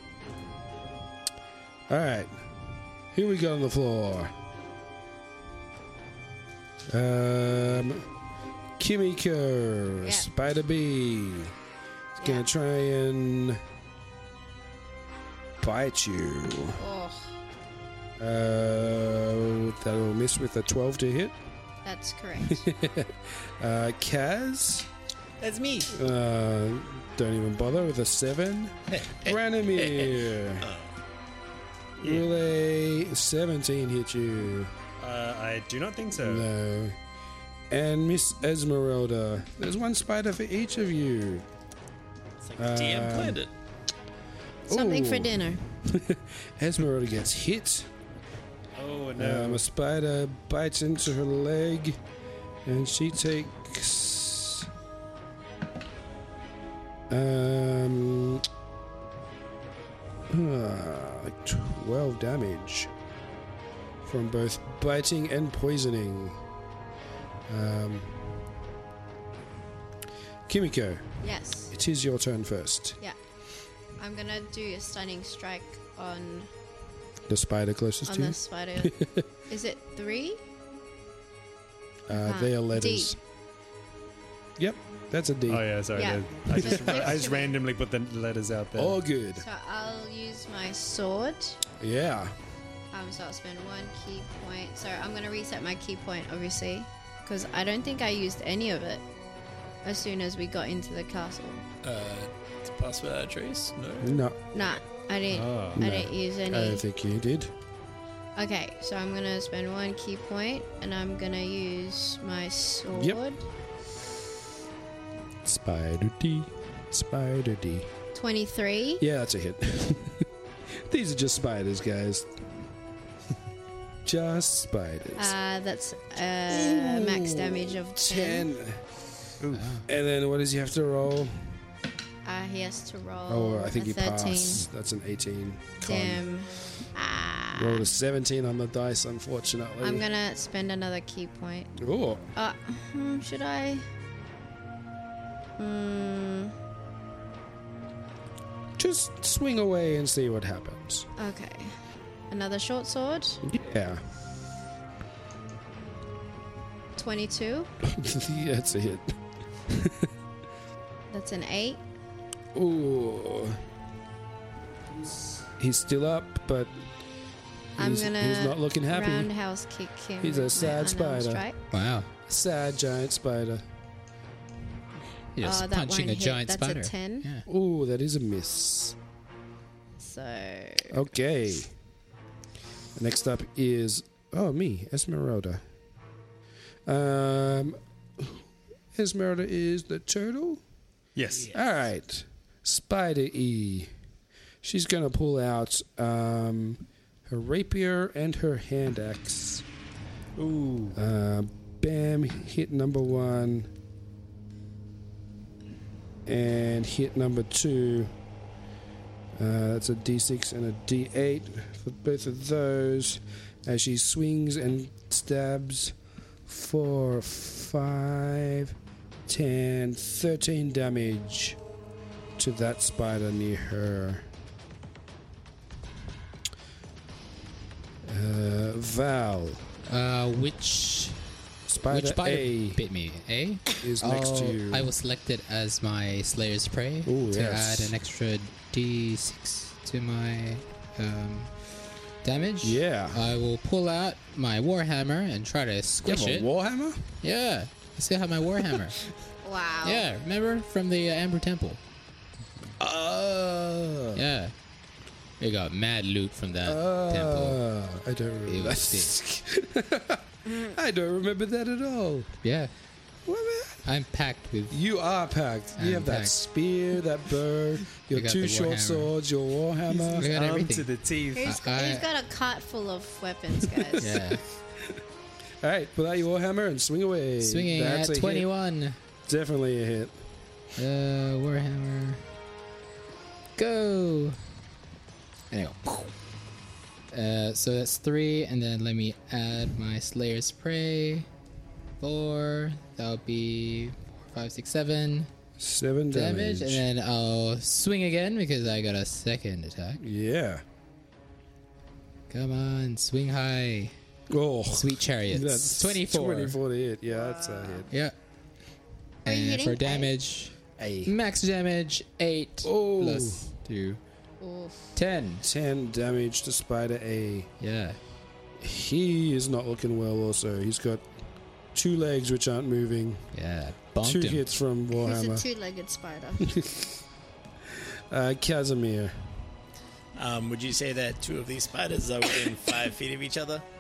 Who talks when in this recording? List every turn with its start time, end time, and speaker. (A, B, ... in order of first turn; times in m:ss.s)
0:01.9-0:04.3 A
0:06.9-0:08.0 A
0:08.8-0:11.5 A
0:10.0-0:10.3 B
0:12.2-0:12.5 B
0:12.2-0:13.6 A
0:15.6-0:16.8 A
0:16.8-0:17.3 B
0:18.2-0:21.4 A
0:21.8-0:22.7 B
0:22.4-0:24.9 A
0:25.4-0:25.9 C
0:25.9-0:30.7 A
0:28.9-0:31.0 C
0:32.0-0:32.3 D
0:32.0-0:34.7 A
0:35.0-0:36.5 D
0:36.2-0:37.0 A
0:37.7-0:41.5 A
0:42.4-0:43.5 C
0:42.6-0:43.4 A
0:44.7-0:47.9 A
0:44.7-0:45.6 B
0:48.8-0:49.6 D
0:49.2-0:52.0 A
0:52.6-0:54.7 A
0:57.1-0:58.4 A
1:00.3-1:02.9 A
1:04.0-1:06.4 A
1:07.5-1:08.2 A
1:10.5-1:11.1 A
1:11.2-1:11.7 B
1:11.7-1:13.0 A
1:14.0-1:16.5 B
1:17.3-1:19.2 A
1:18.1-1:19.0 B
1:19.5-1:20.4 B
1:22.1-1:23.2 A
1:22.1-1:23.2 B
1:24.6-1:25.7 A
1:25.5-1:29.0 D
1:25.9-1:27.6 B
1:26.5-1:27.2 A
1:28.8-1:29.5 A
1:29.4-1:31.6 B
1:31.8-1:32.3 A
1:32.9-1:39.0 B
1:39.8-1:41.6 B
1:41.8-1:44.2 C
1:44.0-1:44.4 A
1:44.5-1:46.8 B
1:45.3-1:45.8 D
1:45.8-1:47.5 A
1:48.4-1:53.4 B
1:52.9-1:53.2 A
1:55.4-1:57.9 A
1:58.1-1:59.0 B
1:59.0-2:02.3 A
2:04.0-2:05.4 A
2:05.2-2:08.5 B
2:06.5-2:08.8 A
2:09.4-2:09.7 D
2:09.5-2:09.9 E
2:09.9-2:11.5 A
2:12.2-2:14.6 B
2:13.3-2:16.2 A
2:15.8-2:17.9 B
2:17.6-2:20.1 A
2:19.8-2:21.7 B
2:21.8-2:22.3 A
2:22.4-2:23.8 B
2:25.6-2:26.5 B
2:28.8-2:31.1 A
2:31.2-2:31.8 B
2:32.3-2:33.4 B
2:33.4-2:34.0 A
2:37.0-2:37.7 B
2:37.8-2:39.2 A
2:39.7-2:40.1 A
2:41.1-2:41.8 B
2:42.5-2:43.6 A
2:45.0-2:46.7 A
2:47.8-2:49.3 A
2:47.8-2:51.6 B
2:50.2-2:51.4 A
2:51.7-2:52.1 E
2:52.3-2:53.6 A
2:55.4-2:57.4 E
2:55.4-2:57.3 B
2:57.5-2:59.0 A
3:00.0-3:01.0 B
3:00.9-3:01.7 A
3:03.0-3:05.6 A
3:06.9-3:10.6 A
3:11.2-3:11.5 D
3:11.5-3:13.9 A
3:14.6-3:19.6 A
3:20.4-3:21.0 D
3:20.9-3:23.7 A
3:26.3-3:28.1 A
3:29.4-3:36.0 A
3:36.5-3:38.8 A
3:39.3-3:41.6 A
3:42.4-3:44.3 A
3:48.0-3:49.6 A
3:49.9-3:51.3 E
3:51.7-3:52.8 A
3:51.8-4:01.5 E
3:53.8-3:54.9 A
3:57.1-3:58.0 A
4:02.2-4:06.5 E
4:02.6-4:03.3 A
4:06.0-4:07.0 A
4:07.2-4:09.0 E
4:09.4-4:10.1 B
4:09.8-4:11.8 E
4:12.8-4:14.2 A
4:14.2-4:14.5 E
4:15.4-4:17.6 E
4:16.6-4:22.4 A
4:18.5-4:19.2 E
4:20.5-4:20.8 B
4:22.4-4:22.7 E
4:23.3-4:23.9 A
4:23.9-4:24.8 E
4:24.7-4:30.3 A
4:25.8-4:26.4 E
4:28.1-4:29.1 E
4:30.0-4:31.4 D
4:30.1-4:32.1 E
4:31.3-4:34.2 B
4:34.0-4:34.4 E
4:35.6-4:38.5 A
4:37.4-4:39.0 E
4:39.3-4:40.2 A
4:40.8-4:42.2 E
4:43.6-4:44.4 E
4:45.5-4:46.1 E
4:47.1-4:51.3 E
4:52.0-4:55.3 E
4:55.6-4:56.8 A
4:56.1-5:00.0 E
5:00.0-5:00.6 A
5:02.3-5:03.9 E
5:04.3-5:07.9 A
5:04.7-5:06.6 E
5:07.1-5:07.9 B
5:09.2-5:10.5 E
5:09.3-5:10.1 B
5:10.8-5:11.1 A
5:11.1-5:14.0 E
5:12.6-5:13.5 A
5:14.4-5:15.0 B
5:15.0-5:15.4 E
5:15.4-5:17.5 A
5:17.6-5:18.0 E
5:18.6-5:21.0 A
5:21.7-5:23.2 A
5:23.3-5:24.4 E
5:24.0-5:25.5 A
5:25.0-5:26.6 B
5:26.4-5:27.0 A
5:27.7-5:29.3 A
5:30.2-5:33.6 C